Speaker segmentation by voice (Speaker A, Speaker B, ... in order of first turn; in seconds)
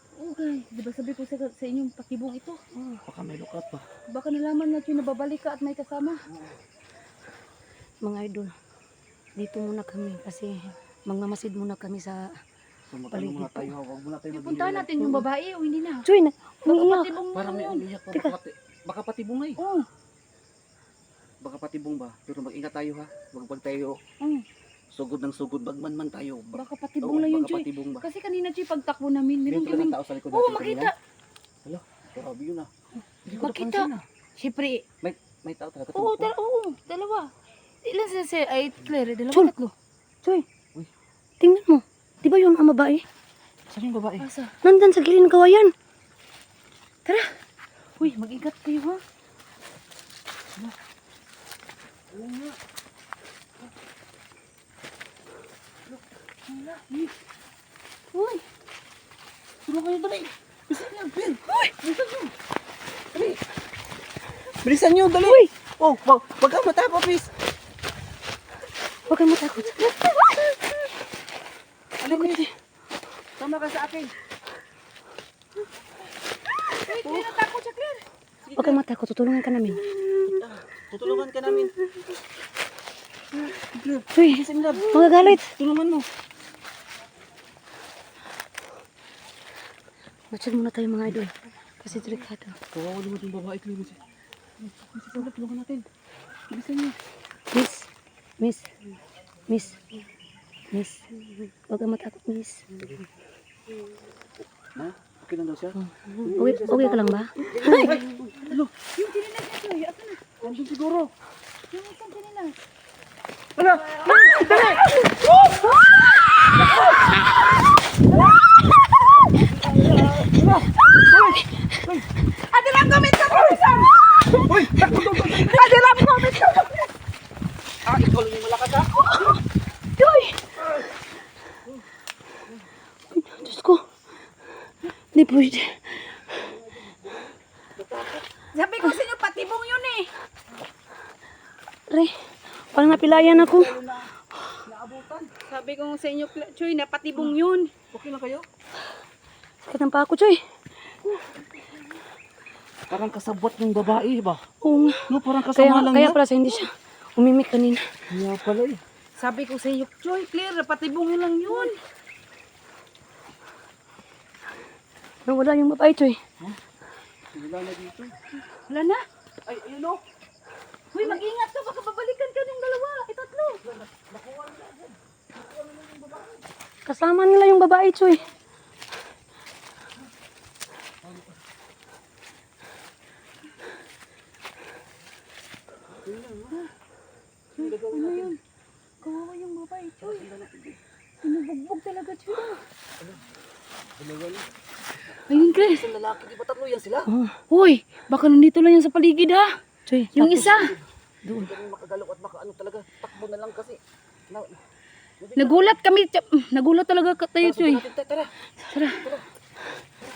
Speaker A: 0.1-2.6, 4.1-6.2, 14.3-16.1, 16.6-17.9, 19.6-19.9, 24.2-24.5, 26.5-30.9, 33.3-34.9, 35.9-39.7, 44.2-44.6, 47.0-47.4, 48.0-49.0, 56.5-57.1, 58.1-58.4, 76.8-78.1, 84.7-85.0, 108.4-110.6, 111.7-112.6, 114.0-114.4, 122.3-126.9, 138.5-140.1, 145.4-147.8, 151.0-151.7, 159.2-161.8, 168.5-169.0, 170.9-173.6, 187.5-188.4, 189.0-190.3, 191.2-192.6, 195.3-195.9, 197.4-199.6, 200.1-200.8, 205.3-207.9, 208.6-209.1
Speaker B: 2.7-3.0, 8.0-8.5, 9.4-12.3, 13.1-13.8, 16.0-17.3, 41.4-43.0, 44.6-45.7, 69.1-70.3, 72.0-72.5, 78.5-80.0, 84.1-85.5, 90.3-92.6, 97.5-97.9, 98.4-98.7, 99.5-99.8, 100.7-102.8, 105.8-108.0, 114.6-114.9, 121.3-121.8, 124.7-126.6, 129.0-129.4, 130.0-130.5, 133.1-133.8, 135.1-136.4, 141.9-143.8, 149.6-150.4, 154.6-158.0, 161.5-161.7, 165.2-166.2, 176.8-178.3, 197.1-197.4, 199.9-200.6, 201.2-201.5
Speaker C: 3.0-3.8, 6.3-6.6, 12.9-15.2, 17.3-19.6, 21.4-24.0, 24.9-28.1, 29.4-30.9, 31.6-32.7, 33.2-34.0, 35.0-36.3, 43.7-44.3, 52.1-52.6, 59.6-62.3, 63.1-63.4, 64.6-67.3, 72.0-72.5, 73.4-74.1, 77.0-77.3, 78.5-78.8, 80.2-81.7, 83.5-86.1, 92.7-94.0, 94.6-95.8, 96.5-97.0, 102.8-103.0, 104.7-108.7, 110.4-111.1, 113.6-115.6, 119.4-122.1, 124.5-125.6, 127.8-129.4, 136.4-138.2, 142.8-144.1, 144.6-145.3, 147.9-148.5, 152.9-156.2, 158.1-158.8, 167.3-168.2, 169.4-170.0, 173.7-176.4, 186.0-186.6, 187.6-188.3, 190.0-190.8, 194.0-194.5, 195.3-197.1, 200.6-204.6, 205.2-205.8, 207.4-208.3, 208.9-209.2